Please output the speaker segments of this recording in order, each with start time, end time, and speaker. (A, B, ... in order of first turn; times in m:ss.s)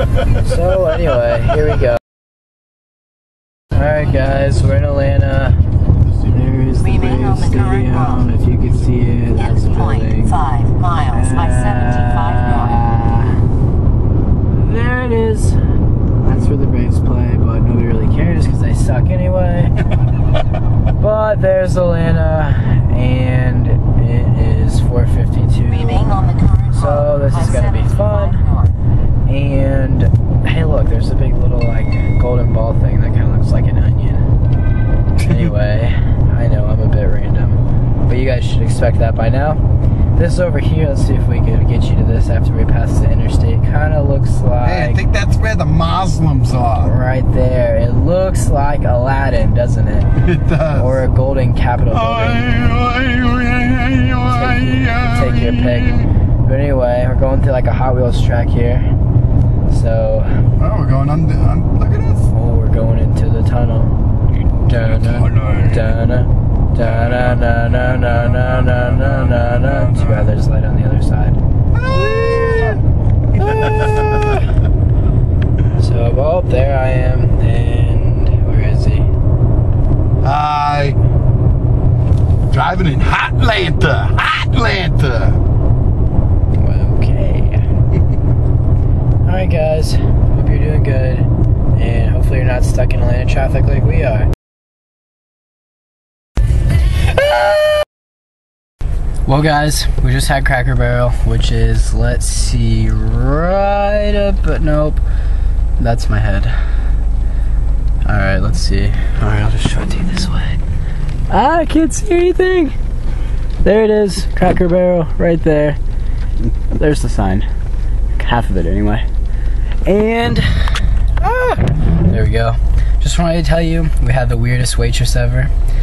0:00.4-0:02.0 A
0:03.7-0:05.6 A
0:06.2-0:10.4 A
0:06.8-0:08.3 B
0:09.3-0:12.8 B
0:11.1-0:13.4 A
0:14.5-0:15.6 A
0:16.2-0:19.8 A
0:21.0-0:26.1 A
0:25.7-0:28.7 B
0:26.7-0:28.4 A
0:29.2-0:34.3 A
0:35.2-0:35.5 C
0:35.2-0:39.6 A
0:40.2-0:45.0 A
0:44.6-0:46.9 C
0:46.8-0:50.1 A
0:50.2-0:51.0 C
0:50.7-0:52.4 A
0:51.9-0:56.1 C
0:54.2-0:58.9 A
0:59.7-1:00.4 A
1:00.6-1:02.3 C
1:02.3-1:03.9 A
1:04.5-1:05.9 C
1:04.7-1:11.4 A
1:06.8-1:10.3 C
1:11.7-1:12.8 C
1:12.4-1:12.8 A
1:13.4-1:14.4 C
1:13.4-1:14.4 A
1:15.8-1:19.1 A
1:20.2-1:21.0 C
1:22.5-1:25.4 C
1:26.5-1:27.7 A
1:29.2-1:34.3 A
1:39.2-1:45.0 A
1:45.8-1:46.6 A
1:48.0-1:50.6 A
1:51.3-1:52.8 A
1:53.6-1:55.8 A
1:56.7-1:57.5 A
1:58.2-1:59.1 A
1:59.8-2:05.5 A